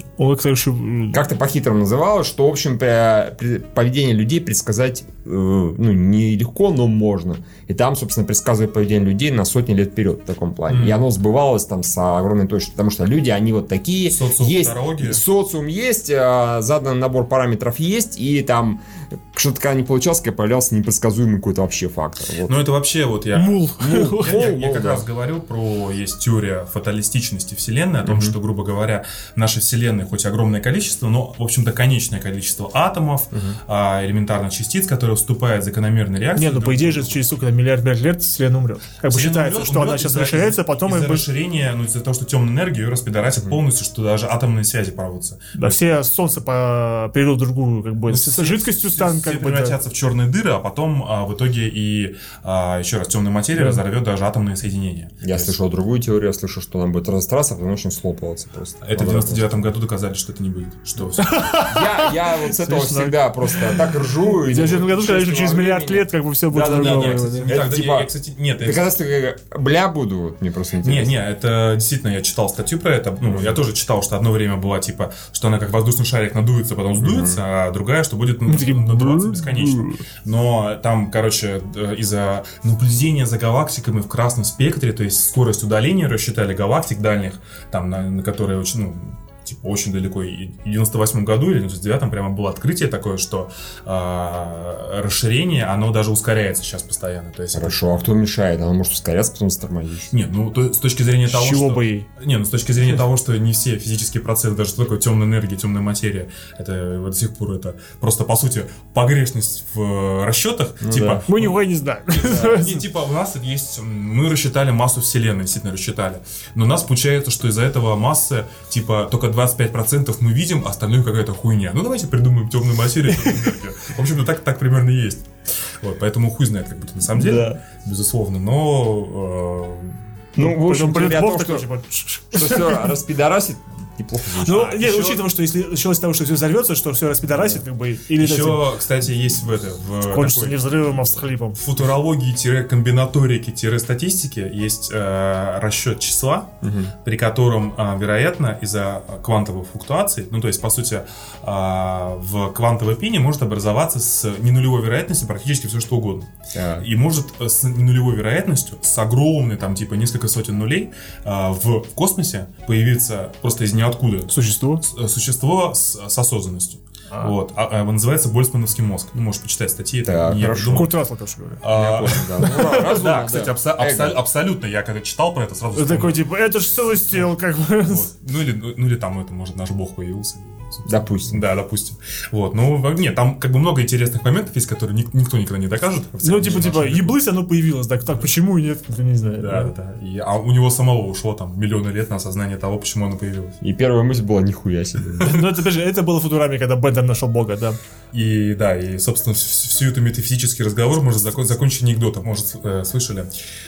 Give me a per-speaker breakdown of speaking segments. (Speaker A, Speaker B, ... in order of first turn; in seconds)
Speaker A: 0.2-1.2, 23.3-24.5, 36.4-41.2, 45.5-49.8, 53.6-53.8, 61.2-67.5, 78.5-80.0, 101.3-102.1, 111.3-112.8, 123.1-123.4, 130.4-132.9, 134.4-138.7, 140.0-141.6, 164.3-164.8, 170.7-171.6, 172.4-173.1, 175.7-178.1, 186.2-189.7, 195.2-197.8
Speaker B: 1.1-22.5, 23.8-25.0, 28.0-28.4, 33.3-33.6, 55.2-59.6, 61.6-68.1, 68.6-71.2, 73.3-73.6, 77.0-77.4, 97.5-100.1, 110.8-111.2, 112.3-112.5, 127.1-127.6, 130.3-131.7, 132.3-134.8, 146.6-146.9, 156.5-156.9, 170.0-170.9, 171.7-174.2, 180.9-181.4, 193.6-195.4
Speaker C: 10.7-11.1, 14.1-15.2, 22.4-37.3, 39.0-45.8, 48.1-55.5, 58.8-61.4, 66.7-68.9, 70.8-97.9, 100.1-125.3, 125.8-130.0, 134.7-135.2, 138.2-140.6, 141.6-146.5, 147.0-170.9, 171.6-176.3, 176.9-187.2, 189.4-193.6, 198.1-203.3